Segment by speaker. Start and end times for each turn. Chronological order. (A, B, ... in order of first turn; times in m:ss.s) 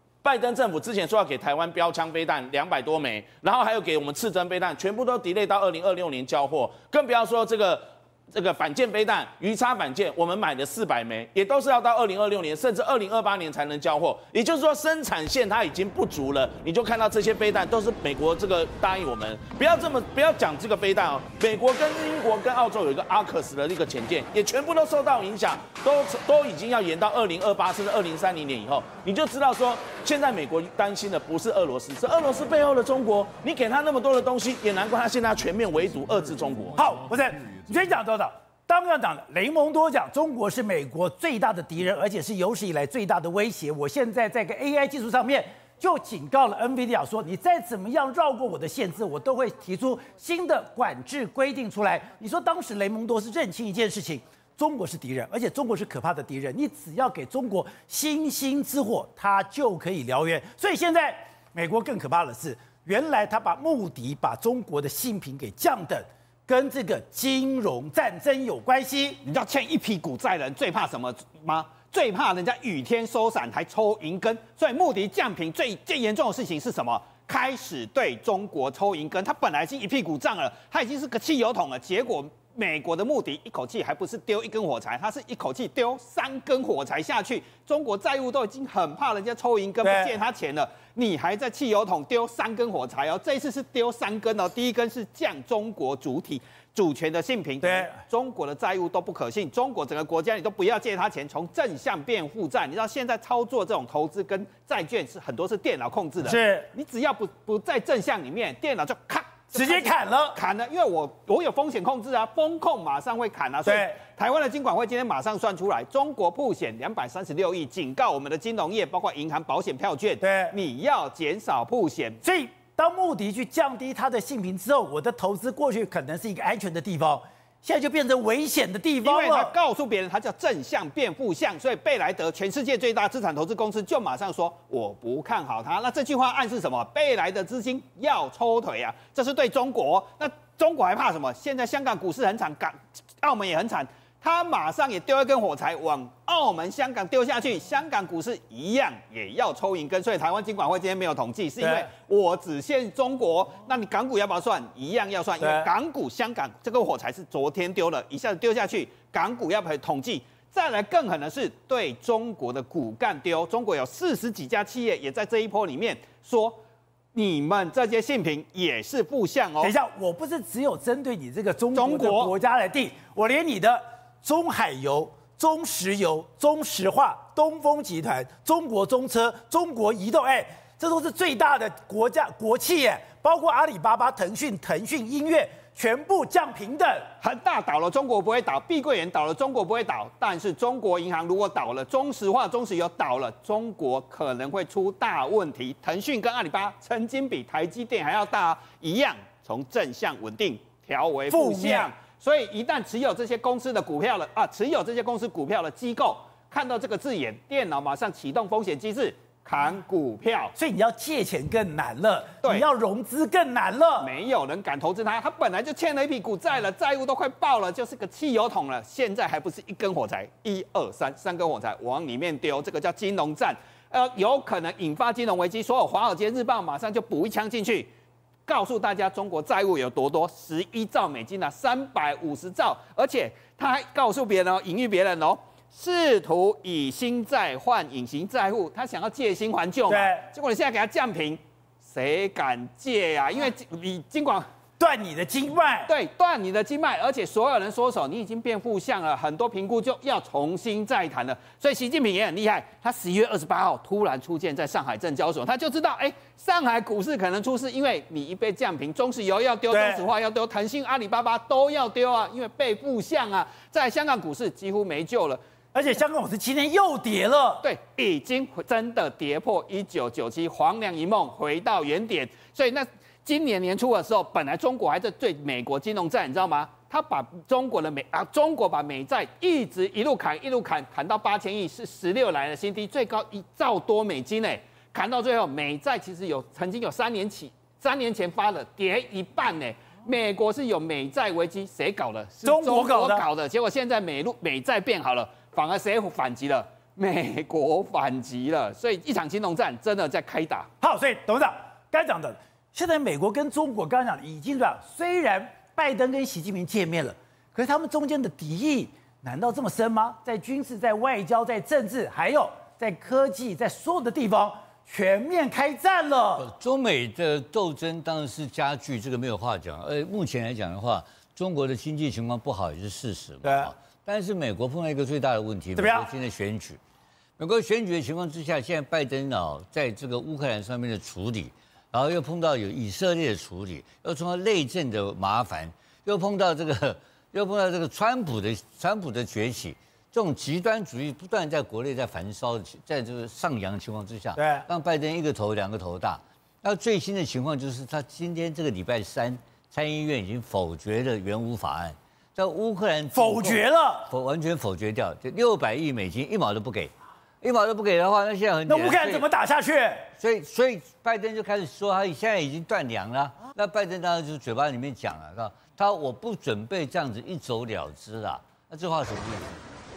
0:00.2-0:36.8 A
0:36.7-1:09.2 B
1:09.2-2:02.2 C
1:29.8-1:30.1 B
1:37.6-1:37.9 B
1:46.2-1:46.7 B
1:49.5-1:50.4 B
1:53.6-1:54.0 B
2:00.2-2:00.5 B
2:02.2-2:09.5 B
2:09.0-2:46.6 C
2:31.6-2:31.9 B
2:35.4-2:35.7 B
2:47.1-2:49.7 C
2:49.6-3:07.1 B
2:51.7-2:52.3 C
3:07.2-3:30.5 C
3:21.3-3:21.9 B
3:30.5-3:34.1 B
3:34.0-3:47.9 C
3:48.4-4:04.5 C
3:59.9-4:00.3 B
4:04.8-4:05.9 B
4:05.9-4:25.4 C
4:19.7-4:20.0 B
4:25.7-4:27.6 B
4:27.6-5:00.7 C
4:52.4-4:53.2 B
5:00.8-5:16.5 B
5:16.4-5:26.8 D
5:23.4-5:23.7 B
5:25.8-5:26.1 B
5:27.4-5:59.3 D
5:44.4-5:44.7 B
5:53.1-5:54.1 B
5:58.7-6:00.1 B
6:00.2-6:09.6 D